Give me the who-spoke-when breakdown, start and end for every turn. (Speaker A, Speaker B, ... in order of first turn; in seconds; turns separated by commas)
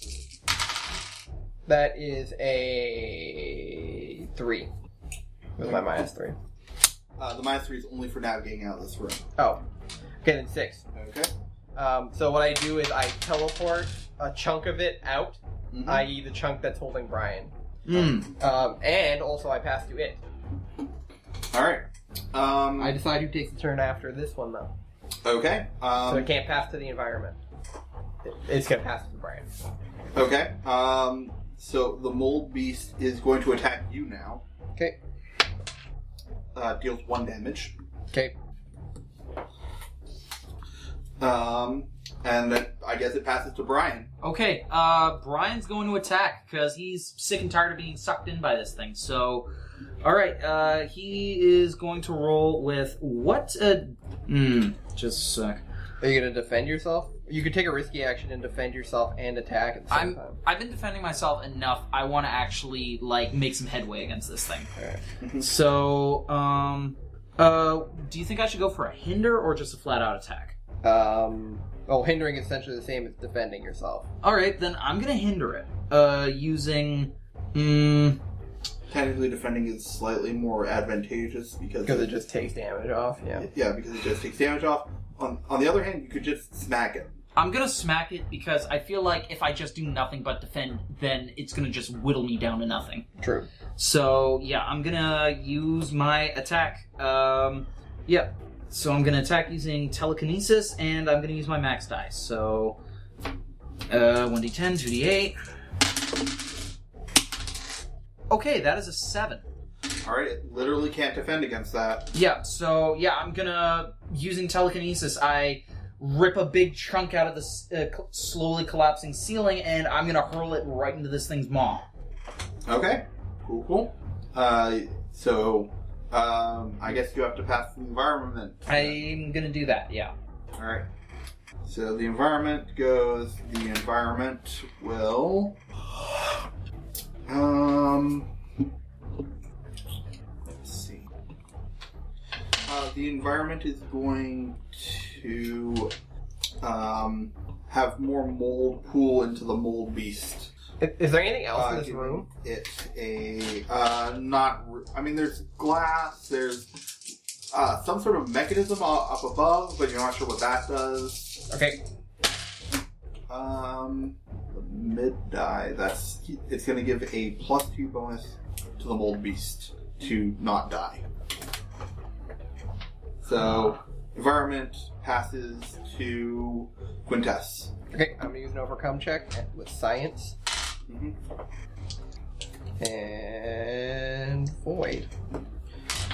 Speaker A: 1.7-4.7, Speaker A: 5.6-6.3, Speaker B: 7.2-9.2, Speaker A: 9.4-9.6, Speaker A: 10.2-10.8, Speaker B: 10.9-11.3, Speaker A: 11.7-17.5, Speaker B: 15.7-16.1, Speaker C: 17.8-18.3, Speaker B: 17.9-18.2, Speaker A: 18.4-20.2, Speaker B: 21.5-23.0, Speaker A: 22.8-24.7, Speaker B: 25.2-26.3, Speaker A: 26.1-27.4, Speaker A: 28.2-29.5, Speaker B: 30.1-34.4, Speaker B: 36.5-37.7, Speaker B: 41.2-44.1, Speaker C: 44.2-49.5, Speaker C: 50.0-55.6, Speaker A: 56.0-60.4, Speaker C: 59.9-64.7, Speaker B: 65.2-65.5, Speaker C: 65.4-70.5, Speaker A: 70.8-74.0, Speaker C: 74.2-78.2, Speaker B: 78.9-82.1, Speaker A: 81.8-83.5, Speaker B: 83.4-87.1, Speaker C: 87.3-93.1, Speaker A: 93.2-93.5, Speaker C: 93.8-102.8, Speaker C: 103.9-105.3, Speaker C: 108.3-109.4, Speaker B: 110.0-112.1, Speaker C: 112.1-121.8, Speaker B: 122.7-129.0, Speaker C: 128.7-130.1, Speaker B: 130.6-130.9, Speaker B: 131.6-136.1, Speaker B: 137.2-138.3, Speaker B: 140.6-141.1, Speaker B: 142.7-145.9, Speaker B: 146.6-150.5, Speaker A: 150.8-152.3, Speaker B: 151.5-156.7, Speaker B: 157.5-161.4, Speaker A: 161.5-161.8, Speaker B: 163.3-171.0, Speaker B: 173.2-177.7, Speaker A: 177.9-180.3, Speaker B: 180.9-181.2, Speaker A: 182.8-185.1